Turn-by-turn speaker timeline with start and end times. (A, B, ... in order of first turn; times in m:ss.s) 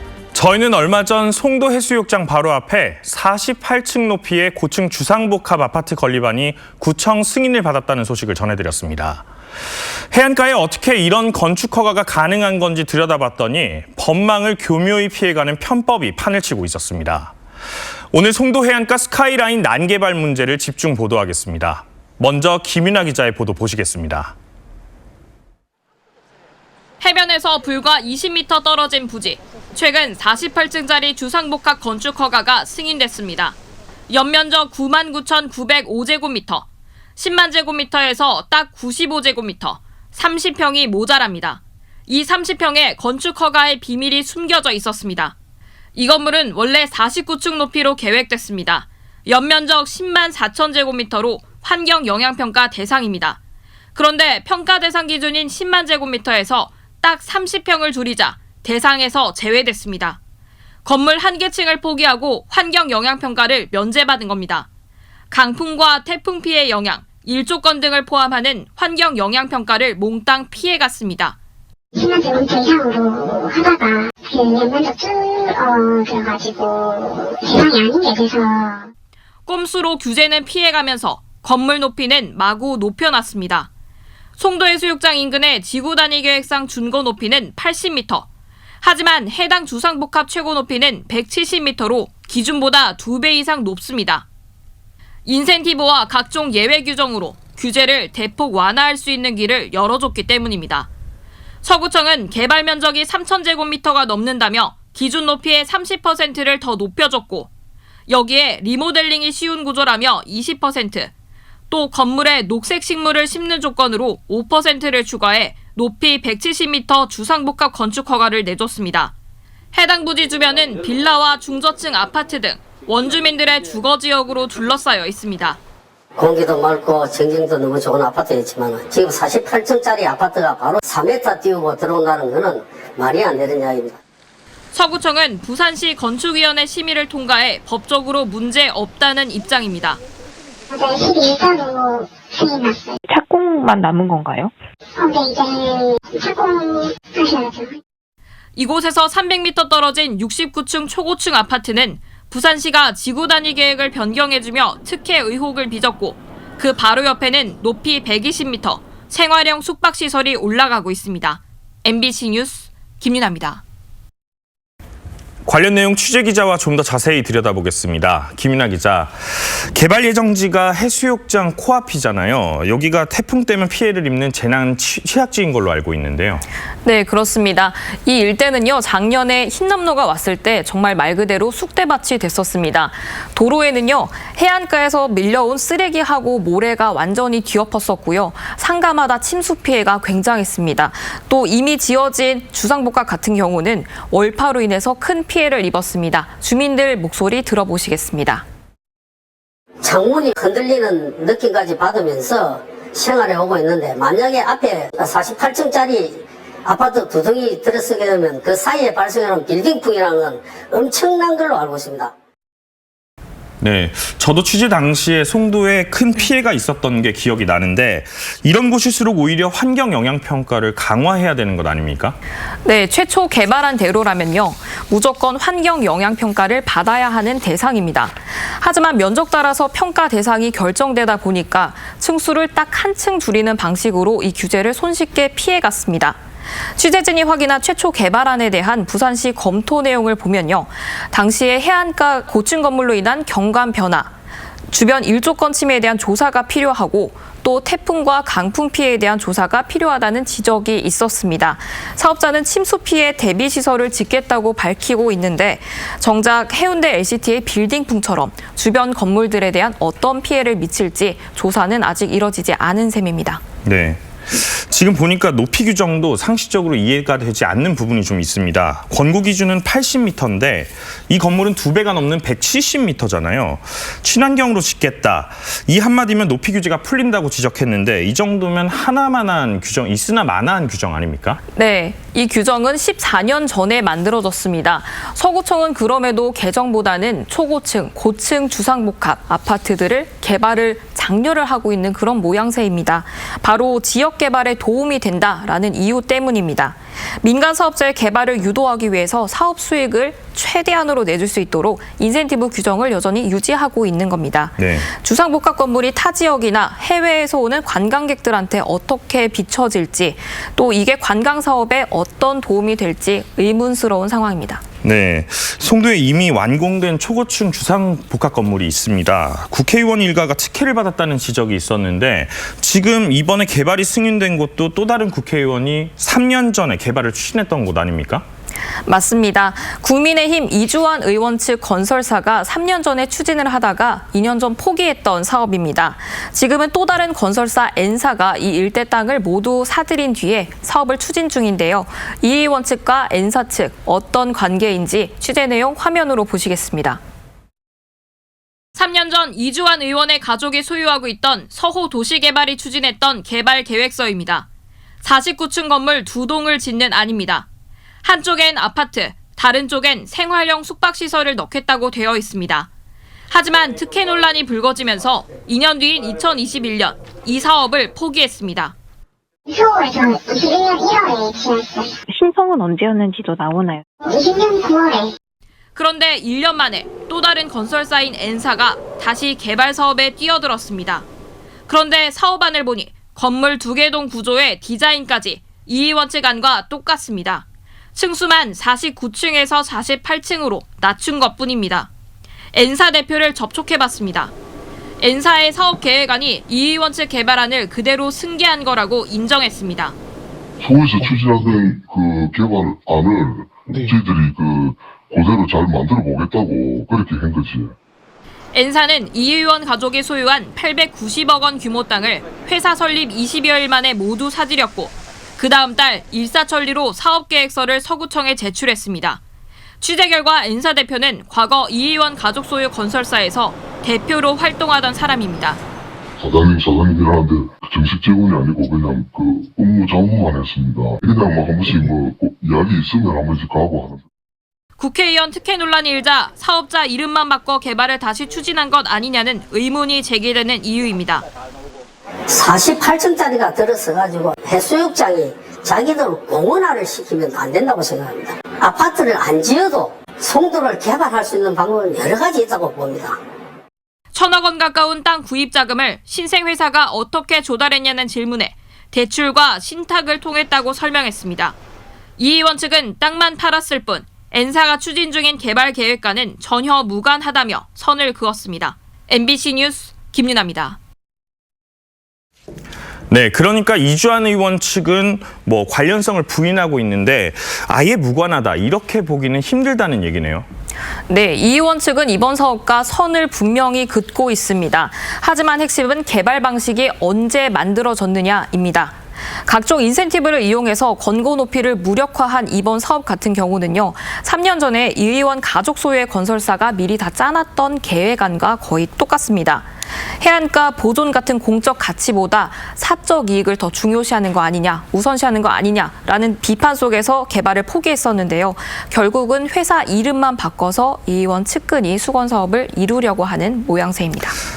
0:00.3-0:09.2 A
0:10.1-0:17.3 A
0:18.1-0:24.3 A
0:27.0-0:33.6 B
0:34.1-0:36.6 B
0:37.2-0:45.3 B
0:46.0-0:53.4 B
0:53.9-1:00.2 B
1:00.8-1:04.7 B
1:05.3-1:11.4 B
1:11.9-1:18.9 C
1:19.5-1:23.7 B
1:24.4-1:28.3 B
1:28.8-1:34.2 B
1:35.2-1:40.9 B
1:41.6-1:47.5 B
1:48.1-1:51.1 B
1:51.7-1:59.1 B
1:59.7-2:05.6 B
2:06.2-2:14.0 D
2:14.7-2:20.0 B
2:20.7-2:23.0 C
2:23.1-2:24.5 E
2:25.0-2:27.8 C
2:28.6-2:43.6 B
2:45.4-2:56.4 A
2:56.8-3:18.4 B
3:19.8-3:32.1 D
3:33.6-3:42.2 A
3:42.6-3:56.2 B
3:56.8-4:04.1 B
4:04.7-4:23.4 B
4:23.6-4:41.4 A
4:41.5-5:14.6 B
5:04.6-5:04.9 A
5:14.8-5:28.2 A
5:28.9-5:47.0 B
5:48.8-5:54.5 B
5:55.0-5:57.5 B
5:58.0-6:02.7 B
6:03.3-6:08.7 B
6:09.5-6:12.0 C
6:12.1-6:13.8 E
6:14.0-6:15.1 C
6:15.8-6:21.0 B
6:21.7-6:31.9 B
6:32.5-6:34.3 B
6:35.0-6:40.0 B
6:40.6-6:47.7 F
6:48.5-6:59.2 B
6:59.8-7:05.6 B
7:06.2-7:14.0 F
7:14.8-7:21.2 B
7:22.3-7:33.2 D
7:34.1-7:41.6 B
7:42.2-7:50.8 B
7:53.1-8:00.4 A
8:01.1-8:19.7 B
8:20.2-8:34.4 B